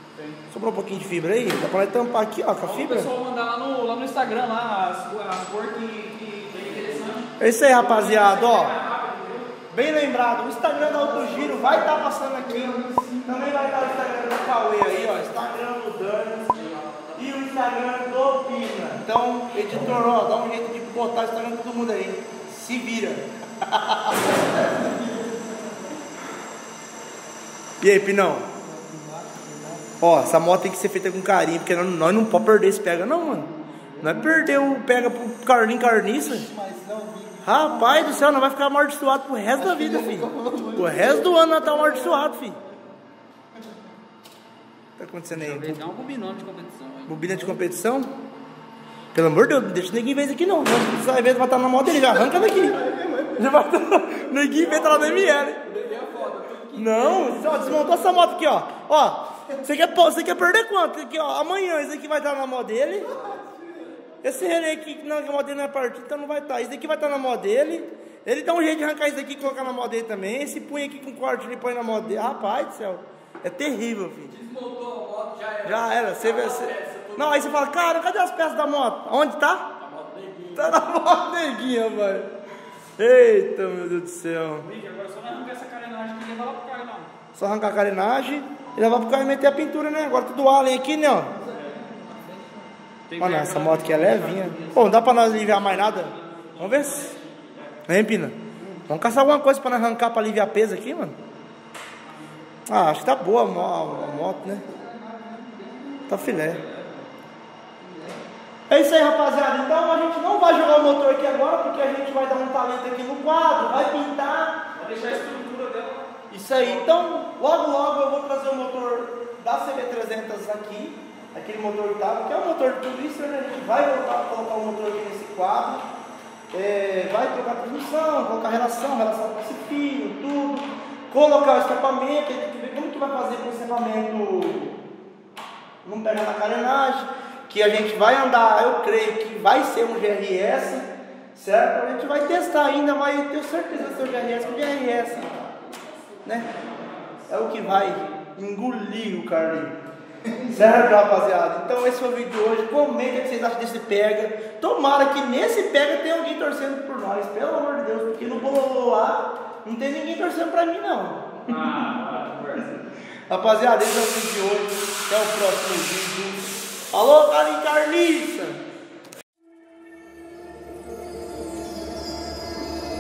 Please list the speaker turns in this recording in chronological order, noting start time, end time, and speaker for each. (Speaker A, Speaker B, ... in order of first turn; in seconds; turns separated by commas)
Speaker A: 0.5-3.1, Speaker B: 2.6-7.3, Speaker C: 6.5-7.2, Speaker A: 7.4-8.8, Speaker B: 7.8-9.5, Speaker A: 9.7-16.6, Speaker D: 10.7-13.6, Speaker C: 16.5-17.2, Speaker A: 17.1-24.2, Speaker D: 24.4-25.8, Speaker A: 27.8-28.5, Speaker D: 28.6-29.9, Speaker A: 30.0-33.5, Speaker D: 33.2-34.9, Speaker A: 34.0-36.5, Speaker D: 36.2-38.4, Speaker A: 37.4-42.6, Speaker D: 39.5-42.8, Speaker A: 45.0-46.0, Speaker B: 45.3-47.4, Speaker A: 47.1-48.1, Speaker A: 49.1-52.8, Speaker D: 52.0-56.4, Speaker A: 53.4-55.6, Speaker C: 54.5-57.7, Speaker A: 56.8-63.1, Speaker D: 57.1-58.4, Speaker D: 63.0-64.4, Speaker A: 64.2-74.4, Speaker C: 74.3-77.7, Speaker A: 75.6-79.7, Speaker C: 79.8-80.7, Speaker A: 80.5-82.3, Speaker A: 83.0-84.7, Speaker B: 84.6-87.1, Speaker A: 87.3-91.3, Speaker D: 91.2-92.7, Speaker B: 93.1-97.7, Speaker A: 93.2-97.1, Speaker A: 97.9-101.2, Speaker D: 98.6-98.9, Speaker A: 102.7-104.6, Speaker D: 103.6-106.4, Speaker A: 106.1-106.6, Speaker B: 106.4-107.1, Speaker D: 107.8-108.2, Speaker A: 108.7-114.7, Speaker B: 114.8-116.1, Speaker A: 116.3-125.9, Speaker A: 126.5-134.8, Speaker A: 135.8-145.5, Speaker B: 145.8-147.8, Speaker A: 146.2-146.5, Speaker A: 147.3-149.8, Speaker D: 150.2-150.9, Speaker A: 150.6-161.8, Speaker B: 161.5-162.8, Speaker A: 163.3-168.6